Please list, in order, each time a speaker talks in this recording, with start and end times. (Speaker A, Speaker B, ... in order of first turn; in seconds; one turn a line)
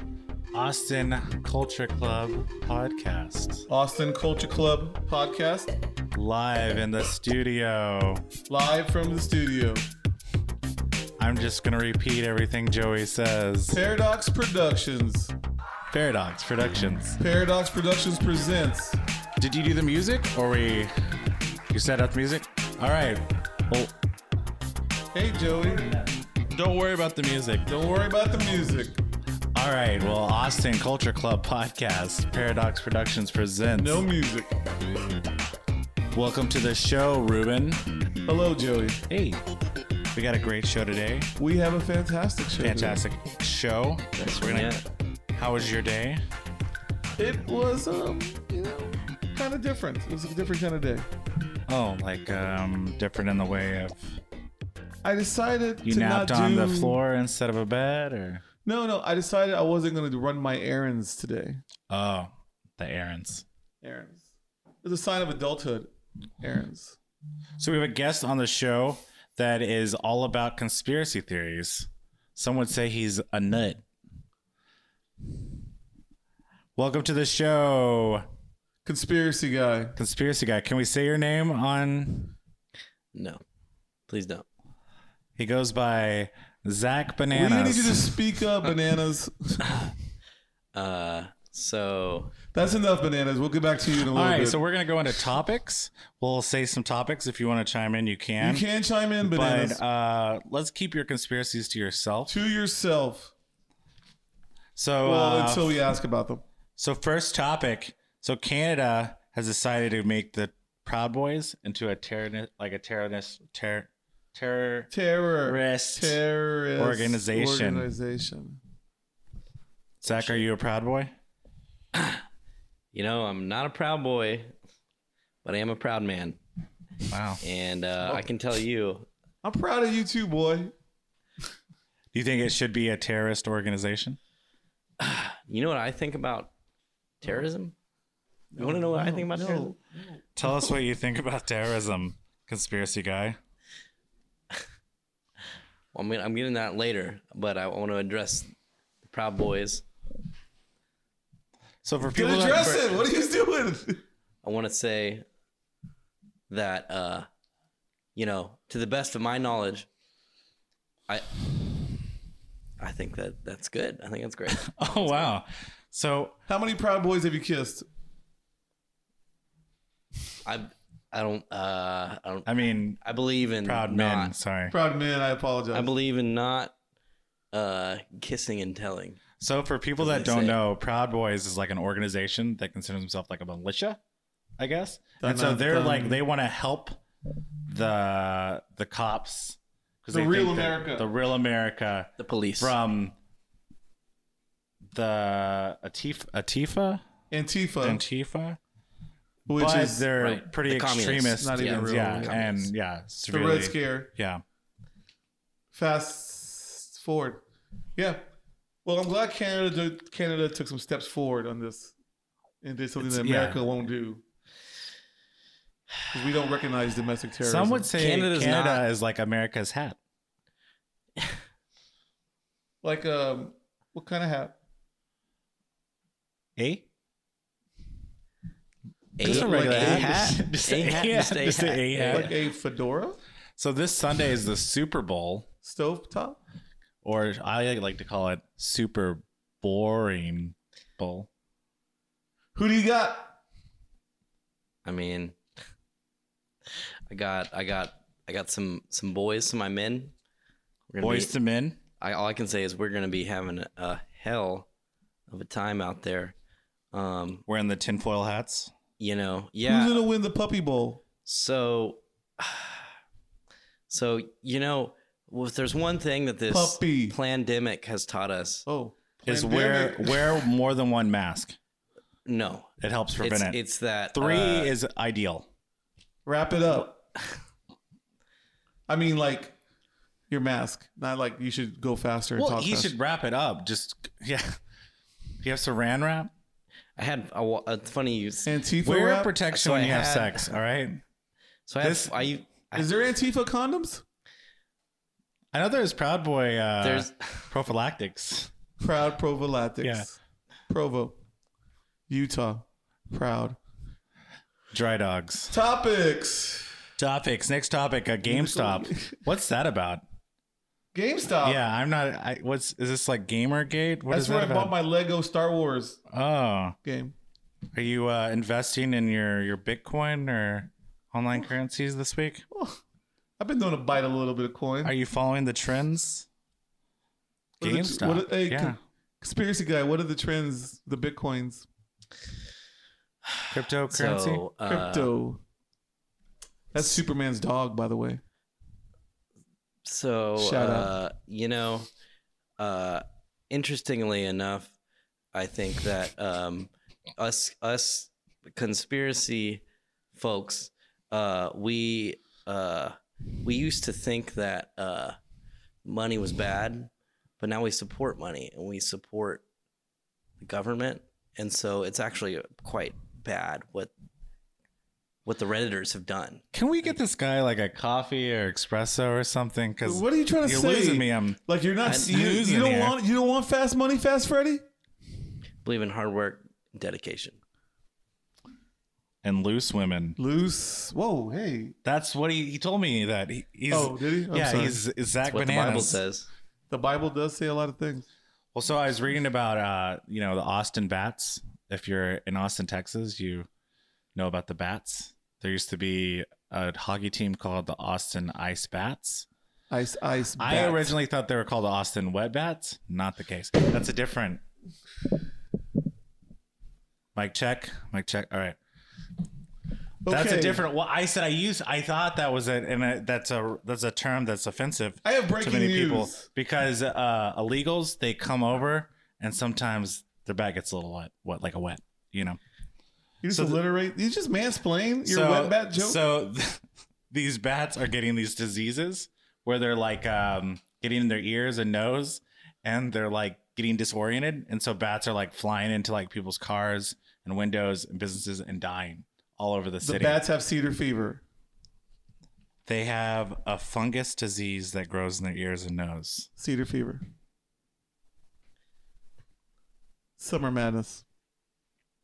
Speaker A: 0.5-3.7
Speaker B: 3.7-5.7
Speaker A: 6.1-8.2
Speaker B: 8.5-9.9
Speaker A: 11.2-13.8
Speaker B: 13.7-15.3
Speaker A: 15.9-17.2
Speaker B: 17.2-19.0
Speaker A: 19.4-20.9
Speaker A: 21.7-23.9
Speaker B: 25.1-26.1
Speaker A: 26.5-27.7
Speaker B: 27.6-29.0
Speaker A: 29.5-34.0
Speaker B: 33.8-34.5
Speaker A: 36.1-37.8
Speaker B: 38.2-39.0
Speaker A: 39.1-39.4
Speaker A: 40.1-41.3
Speaker B: 41.4-43.0
Speaker A: 42.6-44.8
Speaker C: 44.2-44.8
Speaker A: 45.3-46.2
Speaker B: 47.2-51.1
Speaker A: 51.7-54.2
Speaker B: 55.0-57.0
Speaker A: 55.8-58.4
Speaker B: 58.6-61.6
Speaker A: 61.9-63.4
Speaker B: 63.8-64.3
Speaker B: 64.8-67.0
Speaker A: 67.6-73.8
Speaker A: 76.8-78.2
Speaker B: 78.8-80.0
Speaker A: 80.0-82.3
Speaker C: 83.1-83.4
Speaker C: 84.1-84.4
Speaker A: 85.3-88.1
Speaker B: 87.3-89.8
Speaker C: 90.7-92.4
Speaker B: 92.5-94.6
Speaker A: 94.1-98.6
Speaker B: 98.4-99.8
Speaker A: 99.2-102.3
Speaker B: 102.3-103.3
Speaker A: 104.8-105.8
Speaker B: 105.0-106.4
Speaker A: 106.8-114.9
Speaker B: 114.9-118.6
Speaker A: 115.4-116.2
Speaker A: 116.8-117.9
Speaker C: 120.0-120.5
Speaker A: 120.0-121.1
Speaker C: 121.9-122.2
Speaker C: 122.9-124.5
Speaker C: 125.4-126.4
Speaker A: 127.1-127.4
Speaker C: 127.4-129.1
Speaker B: 129.4-130.7
Speaker A: 132.1-134.2
Speaker C: 135.0-136.5
Speaker C: 137.2-137.7
Speaker B: 138.5-140.2
Speaker C: 138.6-139.7
Speaker A: 140.4-143.4
Speaker C: 145.9-148.5
Speaker C: 149.0-149.8
Speaker A: 151.8-152.9
Speaker B: 152.0-154.0
Speaker C: 154.4-155.2
Speaker C: 156.5-157.2
Speaker C: 158.1-159.9
Speaker C: 162.8-165.3
Speaker A: 164.6-166.4
Speaker B: 166.5-167.8
Speaker C: 170.4-174.3
Speaker A: 172.4-173.0
Speaker A: 173.6-174.7
Speaker B: 174.7-175.9
Speaker C: 175.7-176.7
Speaker C: 177.5-179.2
Speaker A: 179.4-184.0
Speaker C: 180.0-180.6
Speaker A: 184.6-187.0
Speaker B: 185.2-186.2
Speaker A: 187.7-193.1
Speaker B: 190.1-191.1
Speaker C: 192.2-192.7
Speaker A: 194.9-197.0
Speaker B: 197.3-198.0
Speaker A: 197.8-198.6
Speaker B: 199.4-200.1
Speaker A: 199.6-204.4
Speaker C: 200.2-202.7
Speaker B: 201.3-202.4
Speaker B: 203.3-204.1
Speaker B: 205.7-207.4
Speaker B: 207.9-208.3
Speaker B: 208.8-211.9
Speaker B: 212.6-214.2
Speaker A: 213.0-213.6
Speaker B: 216.1-217.9
Speaker A: 217.4-220.0
Speaker C: 218.0-218.8
Speaker B: 222.8-224.5
Speaker A: 226.6-226.8
Speaker C: 229.2-232.3
Speaker B: 229.2-230.3
Speaker A: 229.2-232.3
Speaker B: 232.1-233.2
Speaker A: 233.6-235.5
Speaker B: 235.6-236.4
Speaker A: 237.0-241.3
Speaker B: 242.5-243.4
Speaker C: 244.8-245.4
Speaker C: 247.1-250.1
Speaker C: 250.9-251.3
Speaker A: 251.0-251.8
Speaker C: 252.0-254.7
Speaker C: 255.3-256.3
Speaker C: 256.9-257.4
Speaker A: 257.5-258.7
Speaker C: 259.0-260.0
Speaker B: 259.6-261.0
Speaker C: 261.2-262.9
Speaker C: 263.9-268.6
Speaker B: 266.5-267.1
Speaker B: 268.7-270.4
Speaker A: 269.2-271.6
Speaker C: 272.2-274.7
Speaker A: 272.8-273.6
Speaker A: 274.1-275.4
Speaker B: 276.2-277.0
Speaker B: 278.9-279.6
Speaker B: 280.3-282.9
Speaker A: 282.4-284.6
Speaker A: 285.4-286.3
Speaker C: 287.0-288.5
Speaker B: 288.4-289.3
Speaker A: 288.8-291.0
Speaker C: 289.5-290.5
Speaker C: 291.7-292.9
Speaker B: 291.8-292.1
Speaker B: 292.7-294.0
Speaker A: 295.5-298.5
Speaker C: 296.8-297.5
Speaker B: 298.8-300.2
Speaker B: 300.7-301.2
Speaker B: 302.1-303.6
Speaker A: 304.7-305.5
Speaker B: 305.5-306.8
Speaker A: 307.0-310.0
Speaker B: 308.2-309.2
Speaker B: 310.9-311.6
Speaker A: 311.4-314.7
Speaker B: 314.1-316.0
Speaker A: 316.1-316.8
Speaker B: 316.8-317.1
Speaker A: 317.7-322.4
Speaker B: 322.5-322.8
Speaker B: 323.4-324.9
Speaker A: 324.8-326.3
Speaker B: 327.6-331.7
Speaker A: 327.6-328.8
Speaker C: 333.3-335.1
Speaker A: 333.5-334.4
Speaker B: 334.6-335.4
Speaker B: 336.7-338.2
Speaker C: 339.8-341.9
Speaker B: 340.4-340.9
Speaker C: 342.6-344.7
Speaker C: 345.3-349.6
Speaker C: 350.1-355.1
Speaker C: 355.8-359.4
Speaker C: 360.4-363.9
Speaker C: 365.2-366.4
Speaker A: 366.5-371.4
Speaker B: 369.8-374.6
Speaker C: 371.8-372.1
Speaker A: 371.9-373.0
Speaker C: 375.6-377.4
Speaker A: 379.2-380.2
Speaker B: 380.2-381.8
Speaker A: 381.8-386.0
Speaker B: 383.7-384.8
Speaker C: 385.3-386.3
Speaker B: 386.7-388.1
Speaker A: 388.5-393.5
Speaker A: 394.1-399.3
Speaker B: 399.7-400.9
Speaker A: 400.4-404.4
Speaker A: 407.1-408.6
Speaker B: 410.0-410.6
Speaker A: 410.1-422.4
Speaker B: 415.0-416.2
Speaker B: 423.2-426.0
Speaker A: 423.3-423.6
Speaker A: 425.0-440.2
Speaker B: 439.8-441.2
Speaker A: 442.6-446.3
Speaker B: 446.4-447.0
Speaker B: 450.2-451.0